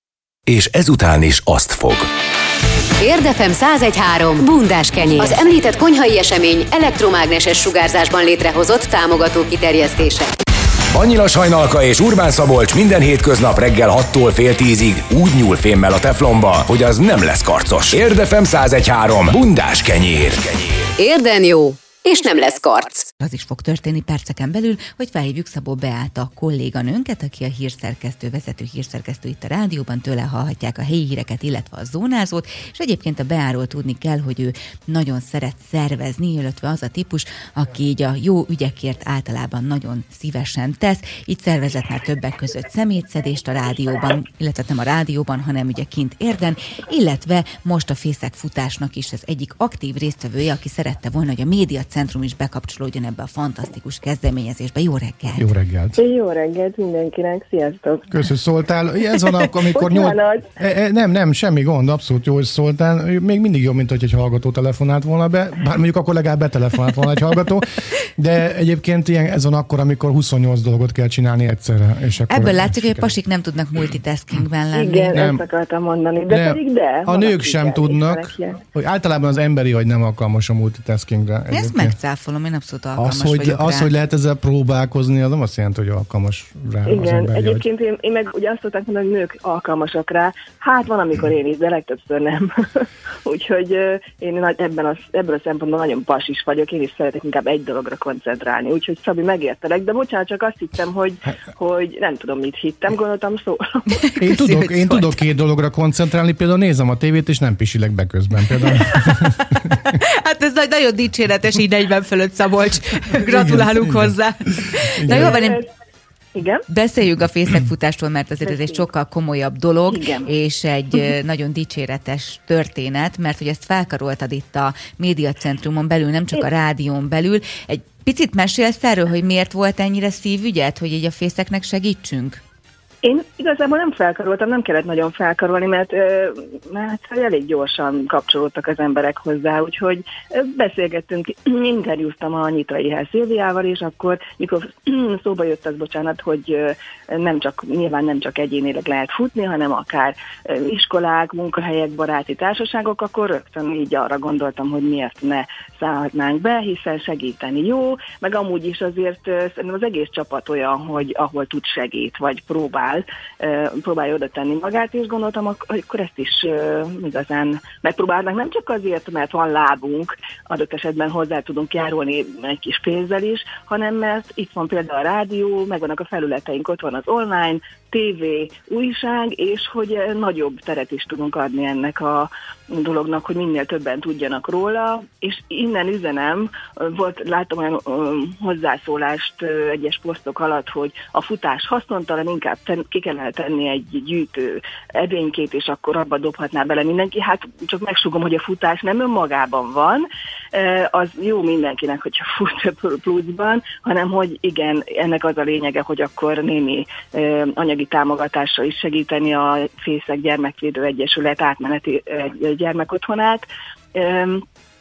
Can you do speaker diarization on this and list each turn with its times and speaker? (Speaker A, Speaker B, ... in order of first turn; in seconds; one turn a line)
Speaker A: 0.5-2.1
Speaker B: 3.0-10.3
Speaker A: 10.9-20.9
Speaker B: 21.0-23.1
Speaker C: 23.2-55.5
Speaker D: 55.4-56.0
Speaker E: 56.0-58.2
Speaker D: 58.1-73.1
Speaker E: 59.5-60.5
Speaker C: 72.3-75.1
Speaker E: 74.7-78.6
Speaker D: 75.1-75.4
Speaker D: 76.3-81.9
Speaker C: 81.5-83.9
Speaker D: 83.0-87.6
Speaker E: 86.8-104.1
Speaker C: 104.0-105.2
Speaker D: 104.2-109.8
Speaker C: 109.5-115.6
Speaker D: 113.2-114.1
Speaker D: 115.0-115.4
Speaker E: 115.1-115.7
Speaker E: 116.3-116.7
Speaker C: 116.7-132.4
Speaker E: 118.4-118.8
Speaker E: 119.9-120.3
Speaker E: 133.0-214.4